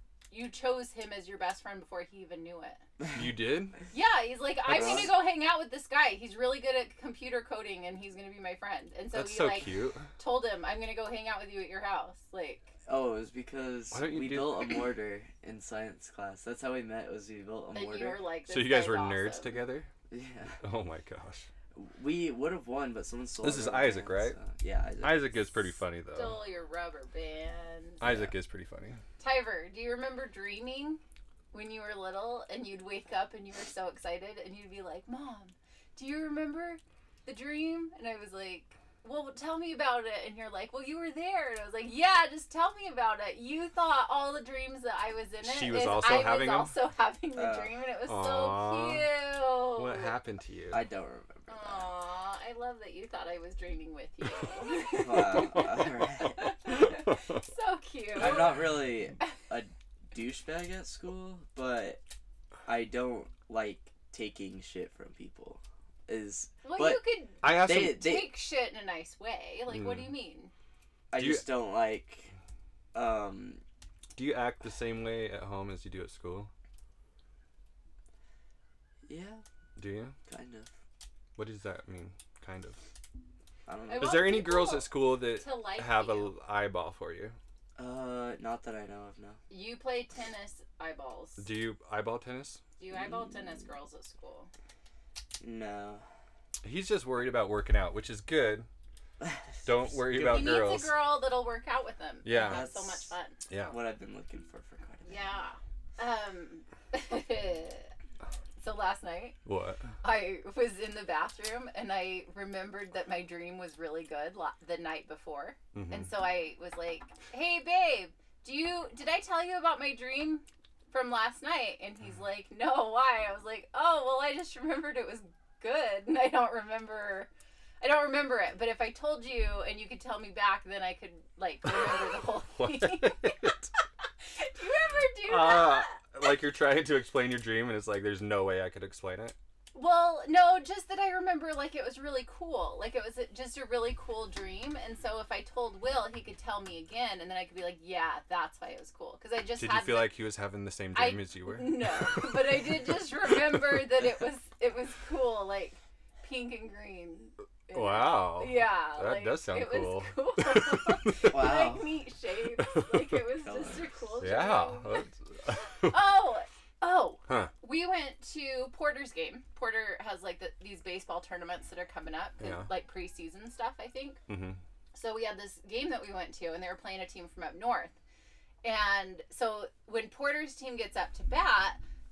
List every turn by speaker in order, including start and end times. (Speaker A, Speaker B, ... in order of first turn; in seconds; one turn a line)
Speaker A: 0.3-2.8
Speaker B: 3.1-3.8
Speaker A: 3.9-12.7
Speaker C: 4.7-5.1
Speaker B: 4.7-5.0
Speaker B: 9.1-10.1
Speaker C: 12.9-18.2
Speaker B: 13.9-14.8
Speaker A: 17.7-19.6
Speaker B: 18.5-19.9
Speaker C: 20.1-20.6
Speaker B: 20.6-21.5
Speaker C: 21.7-25.4
Speaker B: 23.4-24.4
Speaker B: 25.0-26.4
Speaker A: 26.1-28.0
Speaker B: 28.0-29.0
Speaker C: 28.0-28.3
Speaker A: 29.2-31.0
Speaker A: 31.5-50.1
Speaker B: 45.4-46.7
Speaker C: 47.4-47.7
Speaker B: 48.1-49.1
Speaker B: 49.8-50.8
Speaker C: 50.7-51.9
Speaker A: 51.5-58.6
Speaker C: 54.8-56.5
Speaker B: 55.4-57.4
Speaker C: 58.2-62.0
Speaker C: 62.7-68.3
Speaker A: 66.6-70.5
Speaker B: 67.4-68.1
Speaker B: 69.7-70.1
Speaker C: 71.1-72.3
Speaker B: 71.2-71.5
Speaker C: 72.9-73.6
Speaker B: 74.2-76.5
Speaker C: 79.0-79.4
Speaker B: 79.8-80.2
Speaker C: 80.3-80.7
Speaker B: 81.4-82.8
Speaker C: 83.7-84.3
Speaker A: 83.9-86.3
Speaker B: 84.0-87.4
Speaker C: 87.8-89.4
Speaker A: 89.5-91.5
Speaker B: 91.4-92.6
Speaker A: 92.8-94.5
Speaker C: 92.9-93.7
Speaker C: 95.4-96.0
Speaker B: 96.6-98.7
Speaker C: 99.2-100.6
Speaker B: 99.7-100.9
Speaker A: 100.2-103.4
Speaker B: 102.2-102.7
Speaker C: 102.3-103.2
Speaker B: 103.5-103.8
Speaker C: 103.7-105.3
Speaker A: 105.0-107.9
Speaker A: 108.6-109.4
Speaker B: 109.5-109.8
Speaker A: 110.0-127.3
Speaker B: 115.7-116.1
Speaker A: 127.8-133.6
Speaker B: 132.6-133.7
Speaker A: 134.4-136.0
Speaker B: 135.3-139.4
Speaker A: 139.7-150.2
Speaker B: 149.6-153.9
Speaker A: 150.9-165.1
Speaker B: 157.7-161.6
Speaker C: 161.3-162.0
Speaker B: 162.6-163.2
Speaker C: 163.4-164.0
Speaker B: 164.2-166.0
Speaker A: 165.8-174.2
Speaker B: 172.4-172.7
Speaker B: 174.3-174.6
Speaker A: 174.9-177.9
Speaker A: 178.6-181.8